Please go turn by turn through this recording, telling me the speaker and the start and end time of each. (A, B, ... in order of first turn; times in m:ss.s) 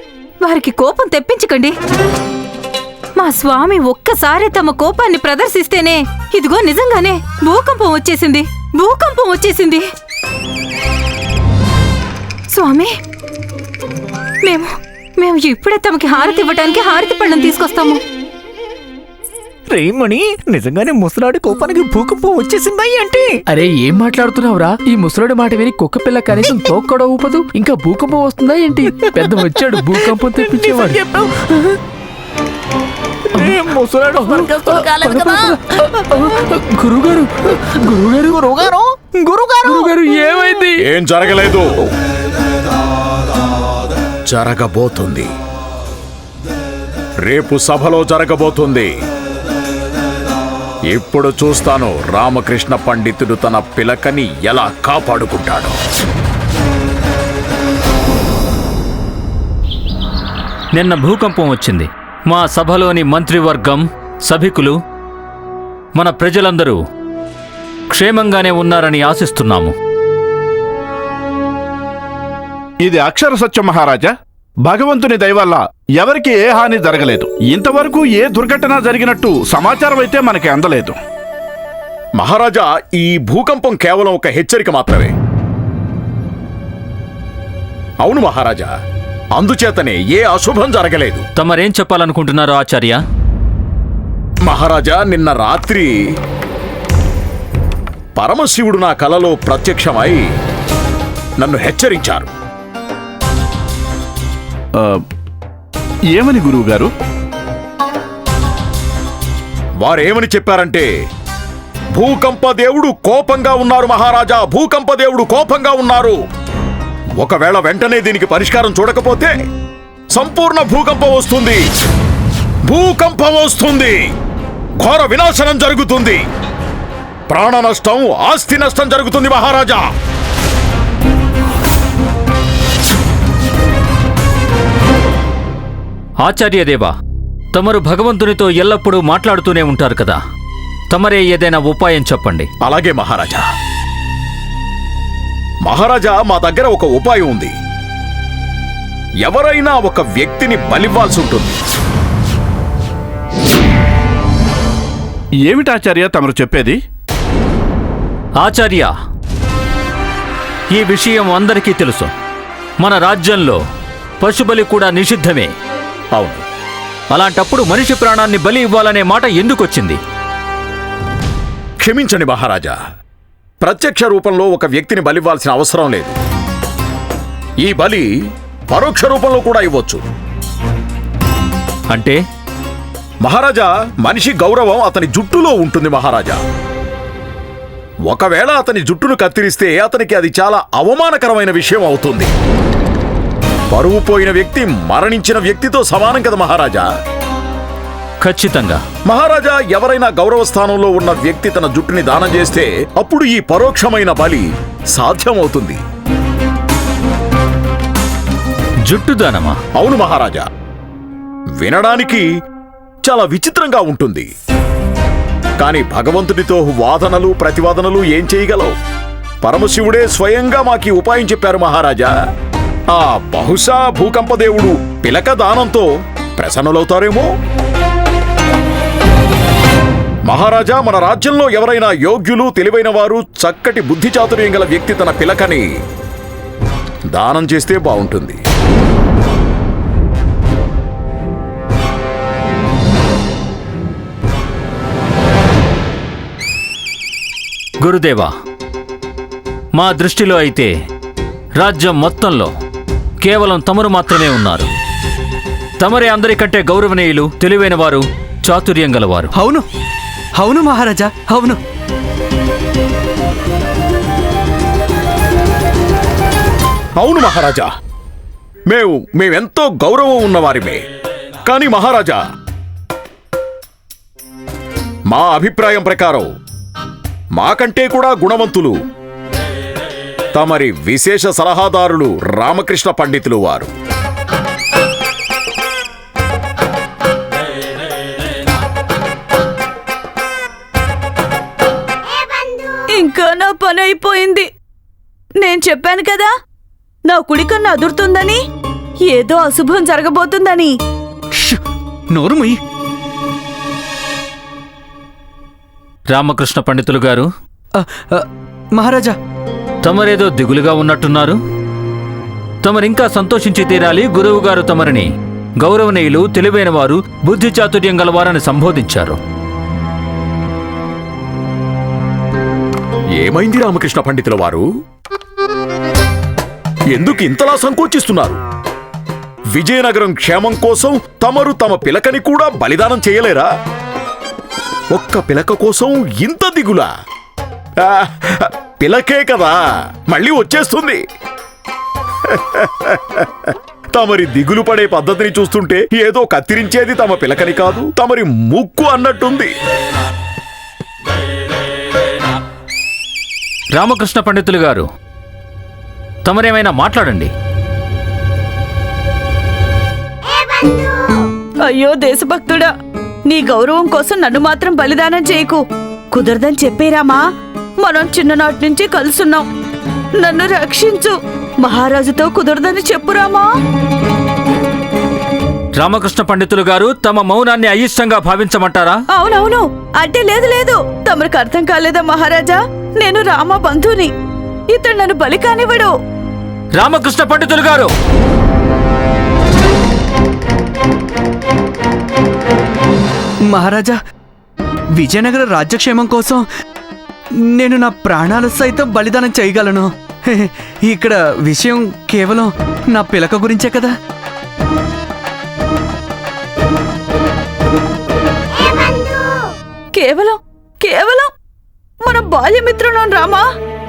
0:00.4-0:01.8 A
0:03.2-0:09.8 A
0:12.5-0:12.9 A
0:14.4-0:18.0 A
0:19.7-0:23.3 B
0:23.5-0:31.0 C
0:30.4-0:31.7 B
0:33.3-0:36.0 B
0:34.3-0:35.6 C
0:36.1-0:37.3 C
0:37.9-0:38.3 C
0:38.3-0:40.0 B
0:40.1-0:40.7 C
0:40.8-0:41.7 D
0:44.3-0:45.3 D
0:47.2-0:48.9 D
0:50.9-0:55.8 D
1:00.7-1:04.8 E
1:06.0-1:06.8 E
1:07.9-1:09.7 E
1:12.8-1:14.1 F
1:14.6-1:21.0 F
1:22.2-1:25.1 D
1:28.0-1:28.7 D
1:29.4-1:31.2 D
1:31.4-1:33.0 E
1:34.4-1:35.9 D
1:38.2-1:40.2 D
1:41.4-1:42.3 D
1:44.8-1:45.0 F
1:46.1-1:46.9 F
1:49.8-1:50.9 D
1:52.0-1:56.2 D
1:57.2-1:59.3 D
2:00.1-2:01.6 D
2:02.7-2:04.0 D
2:04.8-2:06.2 D
2:07.3-2:09.8 D
2:16.2-2:16.9 E
2:17.5-2:20.2 E
2:20.9-2:22.5 E
2:22.6-2:23.4 D
2:25.6-2:27.5 D
2:29.2-2:31.6 D
2:35.4-2:36.8 F
2:38.4-2:38.9 E
2:40.7-2:42.1 E
2:42.8-2:43.6 E
2:44.2-2:45.5 E
2:46.2-2:46.4 D
2:47.1-2:50.0 E
2:51.8-2:52.8 D
2:53.6-2:56.2 D
2:57.6-2:58.1 D
2:58.7-3:00.0 D
3:01.9-3:02.2 E
3:03.2-3:06.4 D
3:08.1-3:12.3 D
3:13.7-3:16.9 D
3:18.2-3:18.8 E
3:19.1-3:25.8 D
3:28.9-3:29.6 E
3:29.8-3:30.4 D
3:31.6-3:32.3 D
3:33.0-3:34.3 D
3:35.6-3:38.7 D
3:39.4-3:42.1 D
3:42.9-3:45.9 D
3:46.4-3:47.3 D
3:50.3-3:55.6 D
3:57.1-3:58.4 D
4:07.8-4:08.3 E
4:09.8-4:10.7 E
4:11.6-4:12.5 E
4:13.2-4:14.7 E
4:15.8-4:19.3 E
4:19.4-4:19.6 G
4:20.4-4:21.6 G
4:27.0-4:27.7 D
4:28.7-4:30.8 D
4:31.4-4:32.2 D
4:35.1-4:36.3 D
4:37.4-4:38.8 D
4:40.4-4:43.7 D
4:53.0-4:54.5 H
4:55.4-4:56.3 H
4:57.1-4:58.4 H
4:59.1-5:00.7 H
5:01.3-5:01.6 G
5:02.1-5:02.6 G
5:06.1-5:07.3 E
5:07.8-5:09.2 G
5:09.8-5:11.4 E
5:12.6-5:15.1 E
5:15.6-5:19.2 E
5:23.2-5:24.6 D
5:26.9-5:28.4 D
5:29.6-5:33.5 D
5:34.9-5:36.9 D
5:37.8-5:39.6 D
5:40.1-5:41.0 D
5:42.3-5:49.5 D
5:53.8-5:54.9 E
5:56.2-5:57.3 E
6:01.7-6:02.7 H
6:03.3-6:05.6 H
6:06.1-6:07.2 H
6:07.8-6:09.4 H
6:10.2-6:13.4 H
6:15.8-6:19.0 E
6:19.1-6:24.1 H
6:24.7-6:25.9 H
6:26.8-6:27.9 E
6:33.5-6:34.0 G
6:35.0-6:36.4 G
6:37.4-6:43.9 G
6:50.0-6:51.3 H
6:52.0-6:53.4 H